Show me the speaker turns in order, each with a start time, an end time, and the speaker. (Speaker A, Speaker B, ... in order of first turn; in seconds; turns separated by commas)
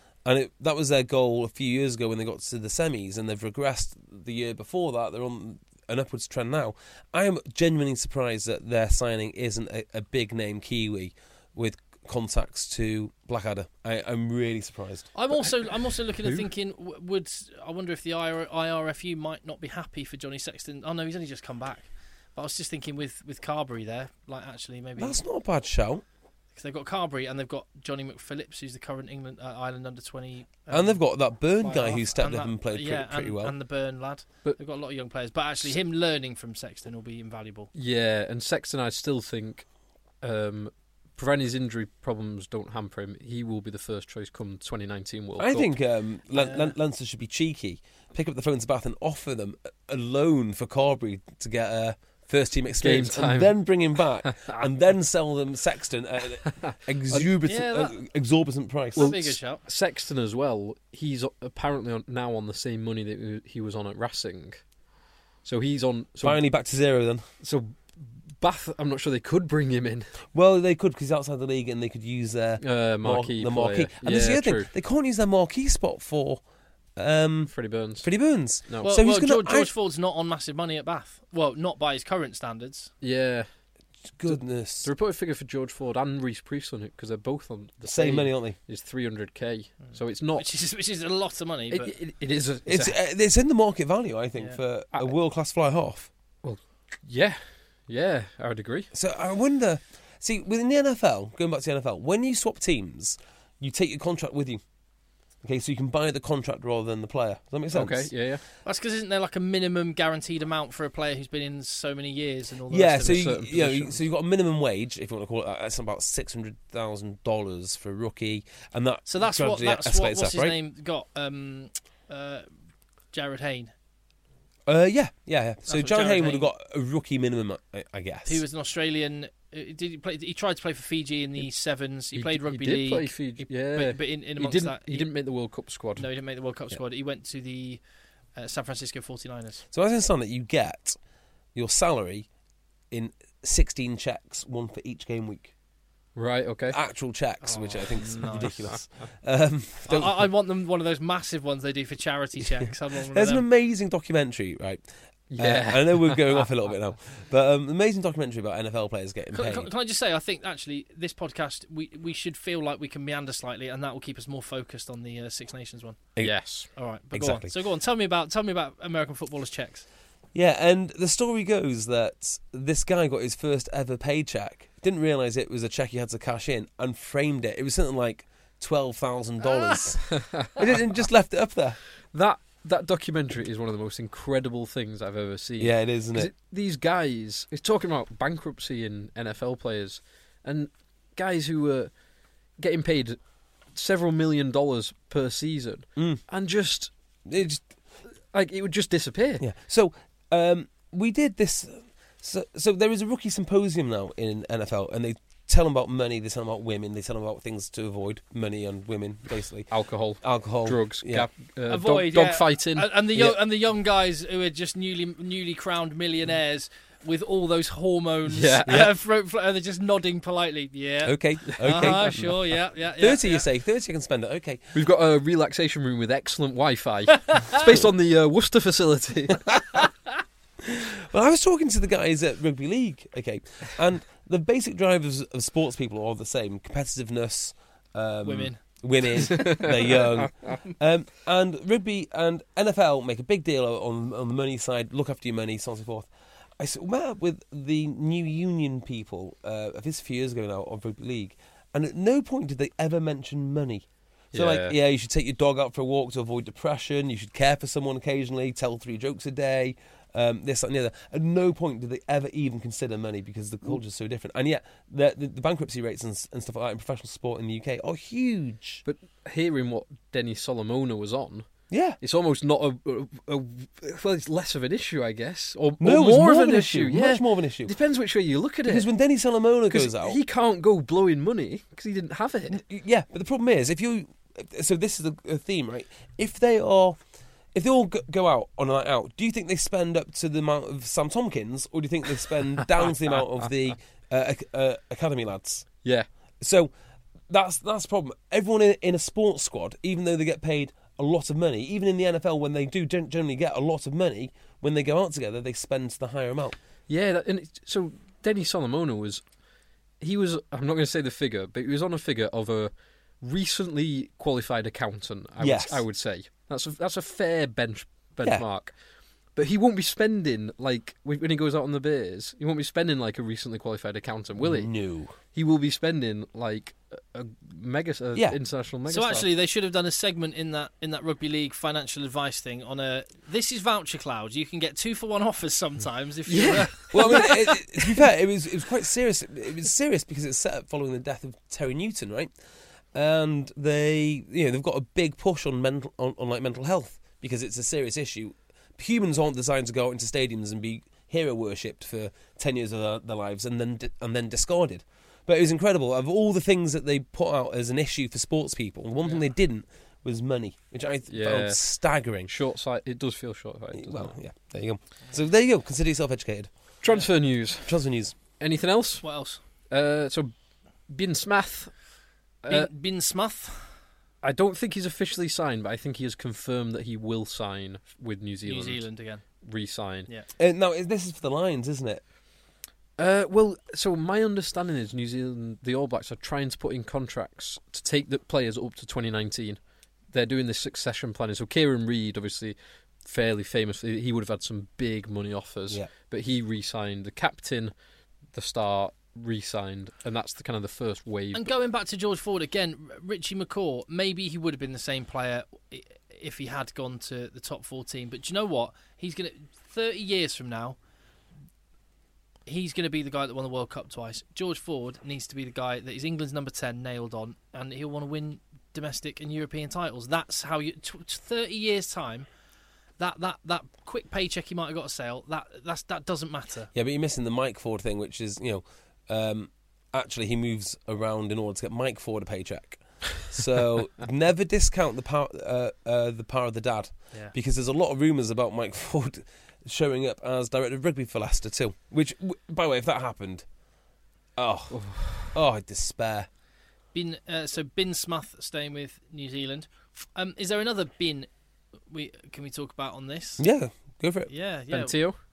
Speaker A: 0.2-15.1, Speaker B: 15.1-25.2, Speaker A: 25.0-26.0, Speaker B: 26.5-37.7, Speaker A: 30.7-33.5, Speaker C: 37.7-39.7, Speaker C: 40.2-45.7, Speaker A: 45.4-59.2, Speaker C: 52.8-54.6, Speaker C: 56.6-57.3, Speaker B: 57.4-58.0, Speaker B: 58.9-59.6, Speaker C: 59.0-64.6, Speaker C: 65.4-66.4, Speaker A: 66.2-67.2, Speaker C: 67.4-70.2, Speaker A: 70.3-76.4, Speaker C: 72.6-74.7, Speaker A: 77.0-79.7, Speaker C: 77.5-78.9, Speaker B: 78.8-82.9, Speaker C: 83.0-83.5, Speaker A: 84.2-84.9, Speaker C: 84.2-90.5, Speaker A: 87.8-88.6, Speaker B: 89.8-91.9, Speaker C: 91.7-93.0, Speaker A: 92.7-96.1, Speaker C: 96.4-98.9, Speaker A: 98.9-104.6, Speaker A: 105.4-108.1, Speaker C: 107.7-108.4, Speaker B: 108.6-113.2, Speaker A: 112.7-120.6, Speaker C: 113.0-114.0, Speaker B: 119.1-122.4, Speaker B: 123.1-123.7, Speaker A: 124.7-128.4, Speaker B: 125.7-126.5, Speaker B: 128.2-135.1, Speaker C: 132.1-136.1, Speaker B: 136.0-137.8, Speaker B: 138.3-139.6, Speaker A: 139.7-141.0, Speaker A: 141.5-142.3, Speaker A: 142.9-145.5, Speaker C: 146.2-146.8, Speaker A: 146.7-150.2, Speaker B: 147.4-148.7, Speaker B: 149.9-153.4, Speaker A: 152.6-159.7, Speaker C: 155.3-156.5, Speaker B: 159.3-166.1, Speaker C: 166.2-166.7, Speaker B: 166.7-169.9, Speaker A: 167.1-167.5, Speaker A: 170.3-181.8, Speaker B: 179.5-179.8, Speaker C: 182.1-191.9, Speaker A: 185.6-186.3, Speaker C: 192.6-193.2, Speaker C: 193.7-196.9, Speaker A: 196.0-196.2, Speaker A: 197.2-197.7, Speaker C: 198.3-199.4, Speaker A: 199.4-211.3, Speaker C: 209.7-213.3, Speaker B: 211.7-223.5, Speaker C: 218.3-218.9, Speaker A: 221.0-222.4, Speaker C: 221.7-222.3, Speaker A: 223.0-224.7, Speaker C: 224.7-229.6, Speaker A: 230.7-268.8, Speaker B: 238.2-239.6, Speaker C: 239.4-239.7, Speaker C: 254.3-254.7, Speaker C: 268.8-278.9, Speaker A: 271.7-272.0, Speaker A: 275.8-277.7, Speaker A: 278.7-280.2, Speaker C: 279.7-282.6, Speaker A: 282.5-287.0, Speaker A: 287.5-295.8, Speaker A: 296.4-296.7, Speaker A: 297.3-306.6, Speaker C: 306.9-309.2, Speaker C: 310.0-318.7, Speaker A: 315.4-315.8, Speaker C: 319.3-329.3, Speaker A: 324.4-325.1, Speaker B: 328.9-337.4, Speaker C: 336.3-337.6, Speaker A: 336.9-342.3, Speaker A: 342.9-362.3, Speaker C: 361.1-364.1, Speaker A: 363.7-366.5, Speaker C: 366.8-367.8, Speaker A: 367.6-368.1, Speaker C: 368.4-369.1, Speaker B: 369.0-369.4, Speaker C: 369.7-370.3, Speaker C: 370.9-371.8, Speaker C: 372.4-372.7, Speaker B: 372.5-373.7, Speaker C: 374.2-378.9, Speaker B: 378.4-379.4, Speaker C: 379.4-380.1, Speaker A: 380.4-382.0, Speaker C: 383.0-389.6, Speaker C: 390.1-397.7, Speaker C: 398.3-401.5, Speaker B: 401.3-410.8, Speaker B: 412.4-422.3, Speaker B: 423.0-426.7, Speaker A: 426.7-443.4, Speaker A: 444.4-446.3, Speaker C: 444.7-445.3, Speaker B: 446.9-451.3, Speaker B: 451.9-453.4, Speaker A: 453.4-454.3, Speaker B: 454.3-455.0, Speaker C: 454.7-455.2